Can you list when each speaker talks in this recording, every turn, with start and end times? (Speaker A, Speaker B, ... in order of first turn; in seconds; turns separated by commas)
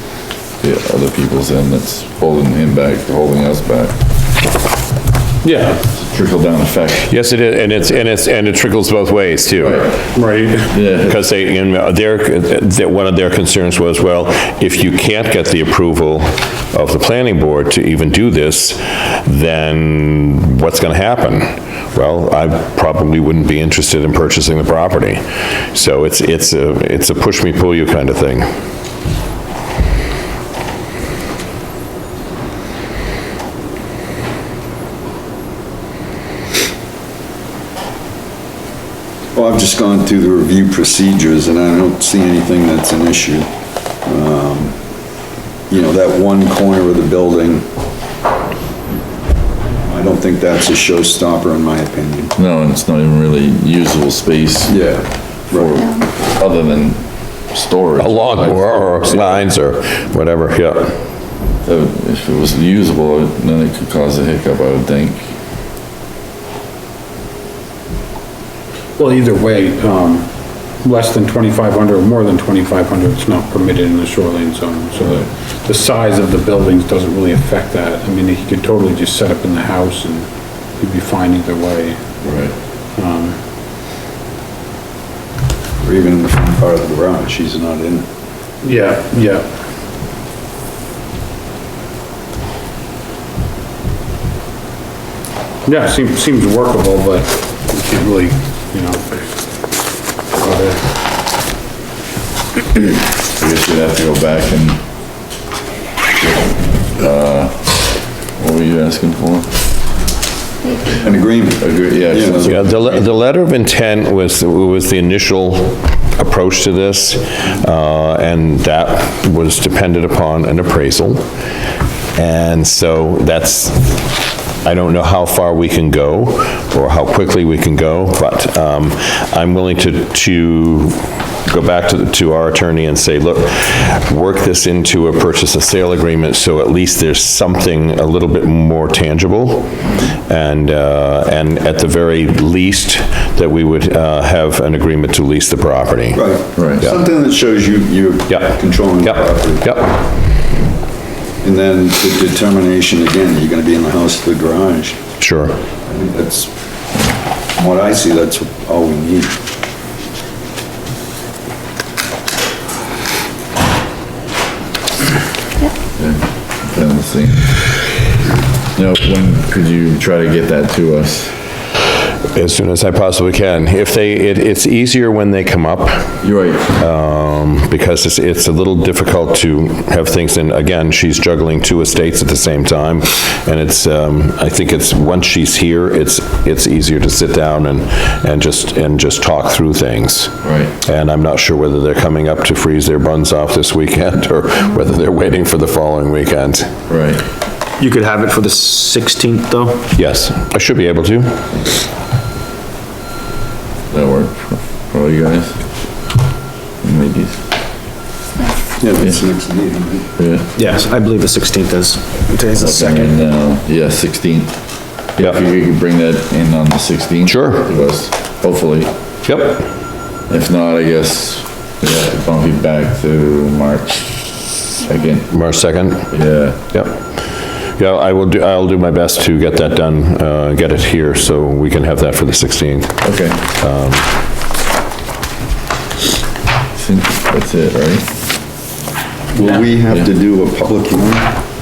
Speaker A: 0.6-4.0, Speaker B: 5.4-5.8, Speaker A: 5.9-7.1, Speaker C: 7.0-10.1, Speaker A: 9.6-10.0, Speaker B: 10.1-10.8, Speaker A: 10.7-11.2, Speaker C: 11.0-28.5, Speaker D: 39.3-43.5, Speaker D: 44.0-44.8, Speaker D: 45.7-47.7, Speaker D: 49.8-52.3, Speaker A: 52.4-54.8, Speaker D: 54.7-55.8, Speaker A: 55.5-59.5, Speaker C: 58.0-61.0, Speaker A: 61.6-65.2, Speaker B: 69.0-82.2, Speaker A: 82.2-82.5, Speaker B: 82.9-83.4, Speaker D: 85.8-88.1, Speaker B: 88.6-89.5, Speaker B: 95.6-99.2, Speaker B: 100.3-100.8, Speaker A: 103.2-104.8, Speaker A: 106.9-107.8, Speaker A: 108.4-109.5, Speaker D: 110.9-112.6, Speaker A: 111.6-112.9, Speaker C: 112.4-121.2, Speaker C: 122.1-139.8, Speaker C: 140.3-146.2, Speaker D: 146.1-149.7, Speaker A: 146.6-146.9, Speaker C: 148.3-150.0, Speaker D: 151.4-155.0, Speaker C: 155.2-155.6, Speaker D: 155.9-156.5, Speaker D: 157.6-159.3, Speaker A: 166.0-167.6, Speaker A: 168.7-171.3, Speaker C: 172.3-176.2, Speaker A: 176.2-176.7, Speaker C: 176.8-196.7, Speaker A: 190.4-190.8, Speaker A: 196.9-197.2, Speaker E: 197.8-199.8, Speaker C: 199.9-201.4, Speaker A: 203.9-205.6, Speaker A: 206.8-207.4, Speaker D: 208.8-210.1, Speaker A: 210.2-210.5, Speaker E: 210.6-213.1, Speaker A: 212.6-214.6, Speaker A: 215.1-218.9, Speaker C: 217.2-217.7, Speaker C: 219.2-219.7, Speaker A: 220.3-225.3, Speaker C: 225.3-226.1, Speaker A: 226.1-226.6, Speaker C: 226.7-227.0, Speaker C: 227.8-234.1, Speaker A: 233.0-233.4, Speaker A: 236.7-238.1, Speaker D: 239.3-241.4